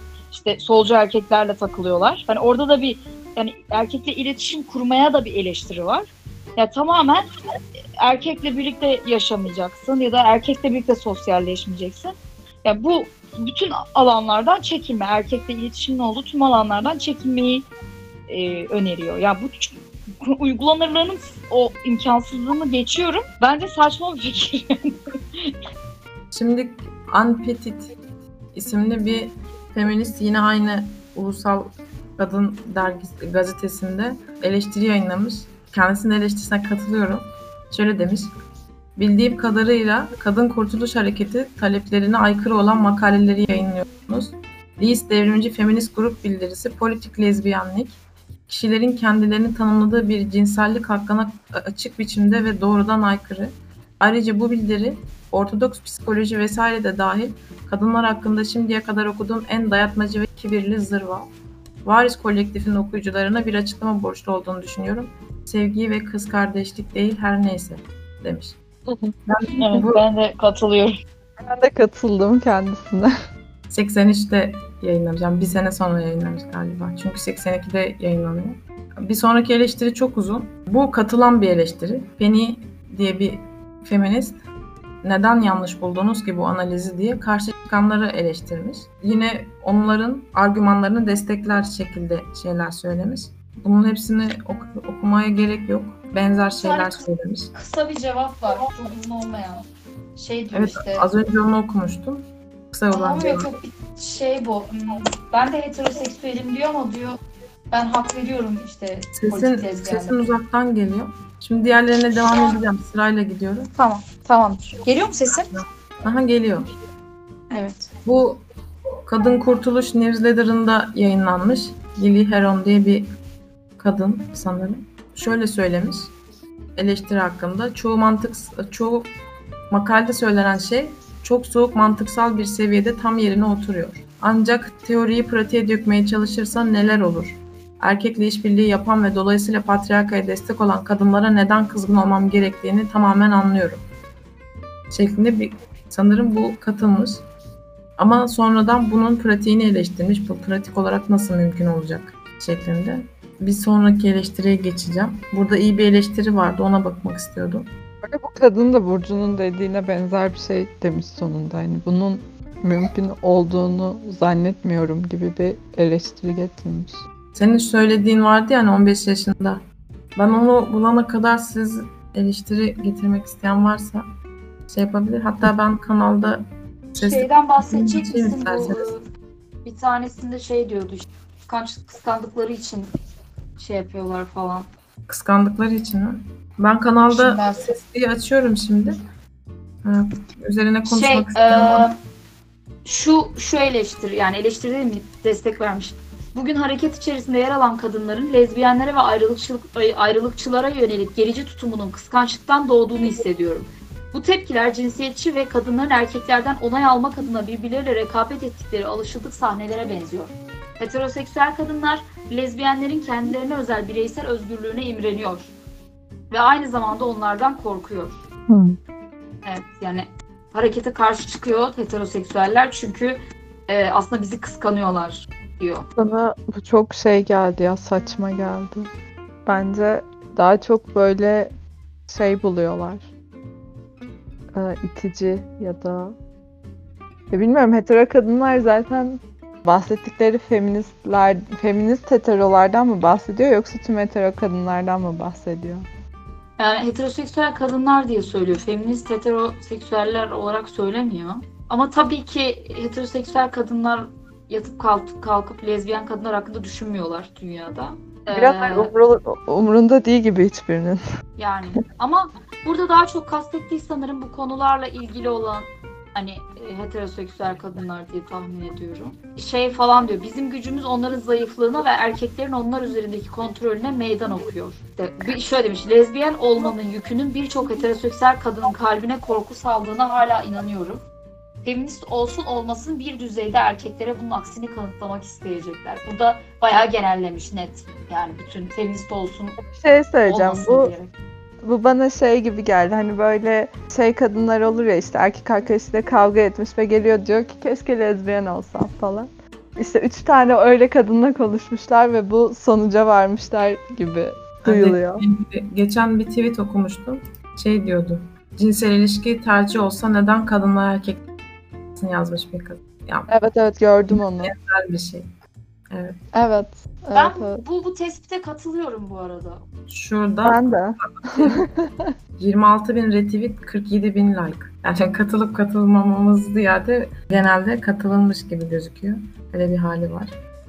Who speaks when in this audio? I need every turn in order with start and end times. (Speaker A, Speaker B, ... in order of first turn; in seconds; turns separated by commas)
Speaker A: 0.3-7.2, Speaker A: 8.0-17.7, Speaker A: 18.3-25.5, Speaker B: 26.3-27.9, Speaker B: 28.5-38.3, Speaker B: 39.0-61.3, Speaker B: 61.8-68.6, Speaker C: 68.9-69.2, Speaker B: 69.3-70.0, Speaker A: 69.6-71.0, Speaker C: 71.4-73.1, Speaker B: 73.7-84.4, Speaker B: 85.0-97.5, Speaker A: 96.6-97.0, Speaker A: 97.5-101.1, Speaker B: 100.5-103.5, Speaker A: 102.9-107.2, Speaker A: 107.7-110.3, Speaker B: 109.1-113.7, Speaker A: 113.8-115.6, Speaker B: 116.0-116.7, Speaker A: 117.5-117.9, Speaker B: 118.0-118.4, Speaker B: 119.1-123.1, Speaker B: 123.8-126.1, Speaker B: 126.8-129.1, Speaker B: 129.7-143.8, Speaker B: 144.9-147.2, Speaker B: 148.0-157.7, Speaker C: 158.0-167.0, Speaker B: 167.3-169.6, Speaker B: 170.2-174.0, Speaker B: 174.7-178.9, Speaker A: 177.0-179.0, Speaker A: 179.7-182.9, Speaker A: 183.6-184.7, Speaker B: 185.1-189.0, Speaker A: 187.1-187.7, Speaker B: 189.8-191.9, Speaker A: 190.9-191.9, Speaker A: 192.8-215.5, Speaker A: 216.3-218.2, Speaker C: 218.5-218.8, Speaker A: 219.4-225.9, Speaker C: 226.0-228.9, Speaker C: 229.5-231.5, Speaker C: 232.1-233.1, Speaker C: 234.5-236.2, Speaker C: 237.3-245.9, Speaker A: 246.6-258.9, Speaker C: 258.3-261.0, Speaker A: 261.4-281.0, Speaker A: 281.6-289.6, Speaker C: 289.6-290.9, Speaker A: 290.3-291.1, Speaker C: 291.6-305.2, Speaker B: 304.6-311.2, Speaker B: 312.0-313.3, Speaker C: 313.3-314.5, Speaker B: 314.1-315.3, Speaker C: 316.3-317.6, Speaker A: 317.1-319.6, Speaker B: 319.9-321.6, Speaker C: 320.4-322.1, Speaker B: 322.4-330.4